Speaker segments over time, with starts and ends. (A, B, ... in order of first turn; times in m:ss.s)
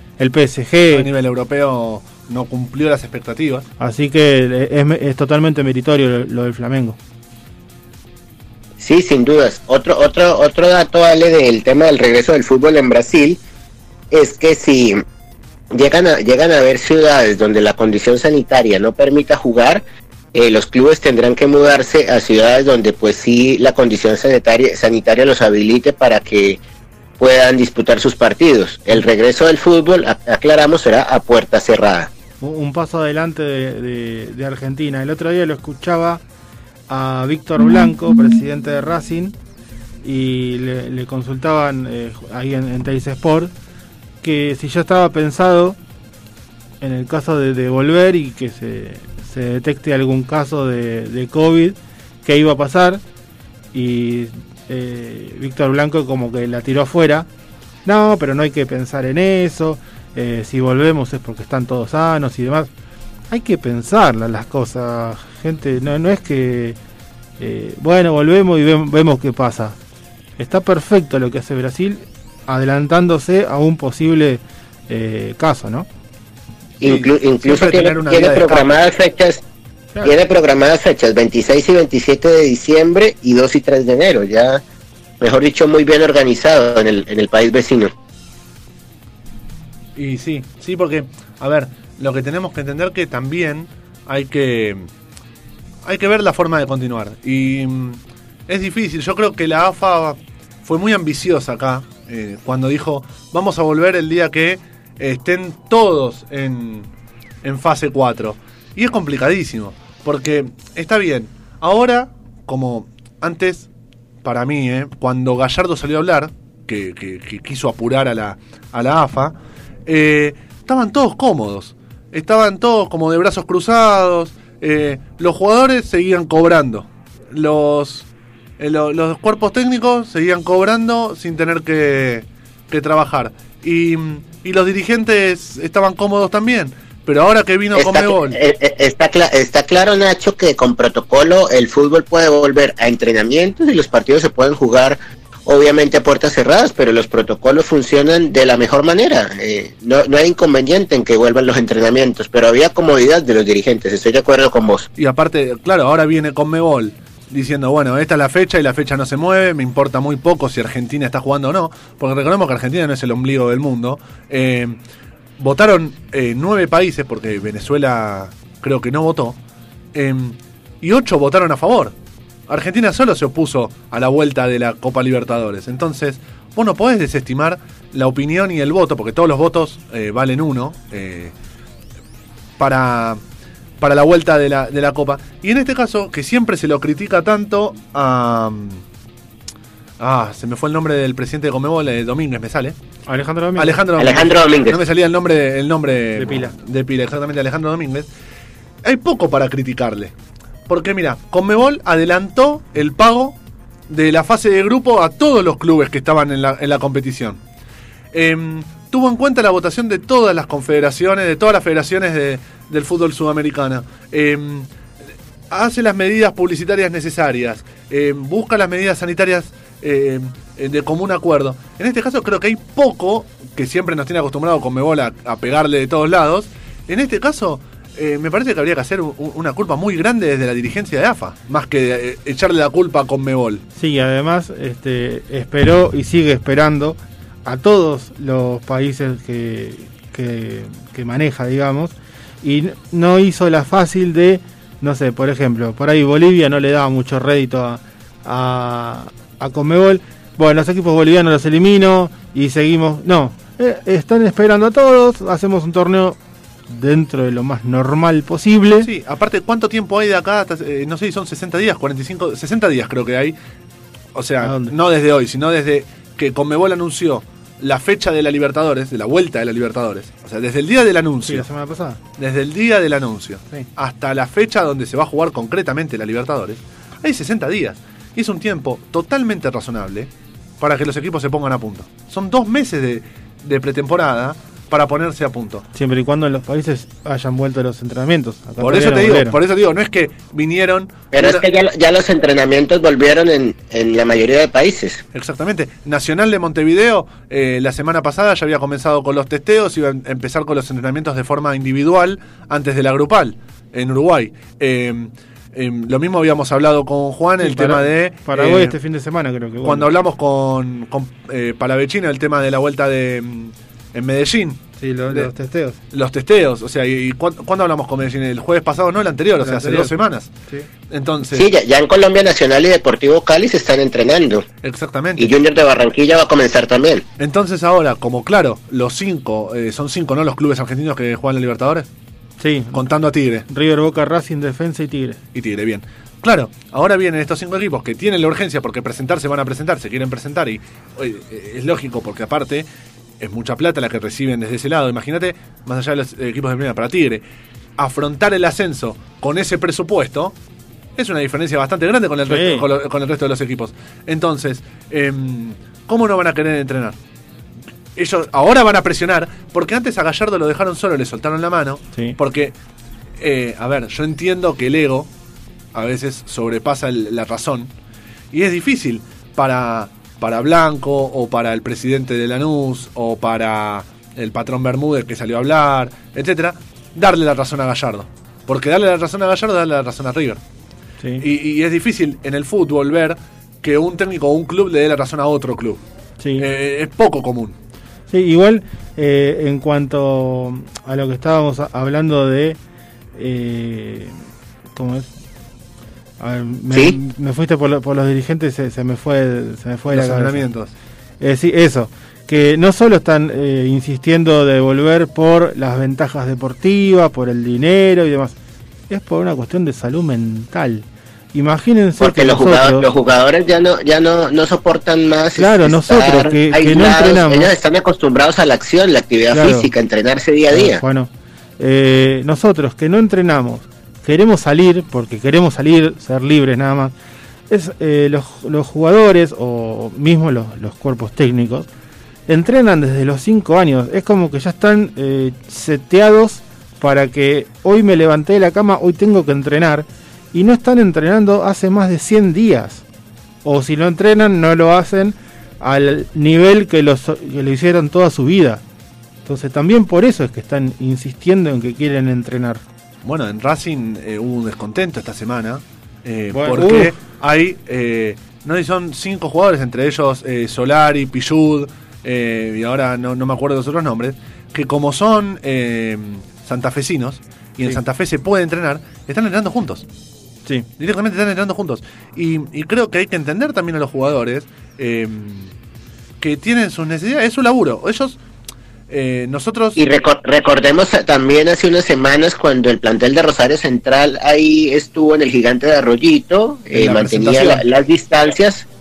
0:00.2-0:01.1 A
0:00.9-0:03.7 B
0:03.8-0:07.0 A
0:08.8-0:13.4 C
0:14.1-0:15.0 C
0:15.7-0:19.8 C
0:20.3-0:26.6 C
0:27.2-0:32.1 C
0:32.4-0:36.2 A
0:36.9-0:39.3 A
0:40.0-0:43.5 A
0:44.2-0:45.8 A
0:46.8-0:53.0 A
0:53.7-0:57.3 A
0:57.8-1:02.7 A
1:03.3-1:06.8 A
1:07.4-1:09.8 A
1:10.4-1:15.9 A
1:16.8-1:19.4 C
1:16.8-1:18.8 B
1:20.0-1:24.6 C
1:25.2-1:27.9 C
1:30.0-1:34.9 B
1:35.8-1:46.9 B
1:47.4-1:53.7 B
1:54.2-2:08.1 B
2:08.6-2:18.4 B
2:17.8-2:34.9 C
2:35.0-2:44.8 B
2:45.4-2:49.4 B
2:49.9-2:51.9 B
2:52.5-3:01.3 B
3:02.6-3:03.2 B
3:03.8-3:08.8 B
3:10.0-3:12.8 B
3:13.1-3:13.8 A
3:13.6-3:18.1 B
3:14.0-3:14.8 C
3:16.2-3:16.5 A
3:18.8-3:20.1 B
3:20.7-3:23.4 B
3:23.9-3:27.4 B
3:28.1-3:34.7 B
3:35.5-3:53.6 B
3:53.8-4:16.2 A
4:16.7-4:18.9 A
4:18.8-4:23.4 B
4:24.1-4:31.4 B
4:24.4-4:24.7 A
4:31.2-4:32.0 A
4:32.2-4:45.6 B
4:45.7-4:49.4 A
4:48.6-4:51.4 B
4:51.1-4:55.0 C
4:55.1-5:08.8 B
5:07.4-5:09.9 A
5:09.6-5:15.3 B
5:14.8-5:15.8 A
5:15.9-5:20.3 B
5:19.4-5:19.9 A
5:20.9-5:21.5 B
5:21.3-5:24.4 C
5:24.6-5:25.3 B
5:25.2-5:27.0 C
5:27.2-5:31.9 B
5:32.4-5:32.8 A
5:32.7-5:33.5 B
5:33.5-5:35.2 A
5:35.3-5:42.7 B
5:43.2-5:47.2 B
5:47.8-5:50.4 B
5:51.0-5:57.0 B
5:52.3-5:52.6 A
5:58.0-6:02.6 B
6:03.2-6:05.1 B
6:05.7-6:07.7 B
6:08.3-6:20.4 B
6:21.2-6:25.8 B
6:26.2-6:26.5 A
6:26.4-6:27.5 B
6:28.1-6:32.6 A
6:33.2-6:34.2 A
6:34.7-6:35.1 A
6:36.2-6:40.4 A
6:36.7-6:37.0 C
6:39.9-6:40.7 B
6:41.2-6:48.3 A
6:48.9-6:52.9 A
6:52.0-7:00.8 C
6:55.4-6:57.5 A
6:59.3-6:59.7 A
7:00.5-7:06.9 A
7:07.5-7:11.7 A
7:12.3-7:22.8 A
7:23.4-7:28.6 A
7:29.2-7:32.6 A
7:33.0-7:49.8 B
7:36.3-7:37.0 A
7:50.8-7:55.5 B
7:56.2-7:58.2 B
7:58.9-7:59.8 B
7:59.8-8:08.6 C
8:06.7-8:07.6 B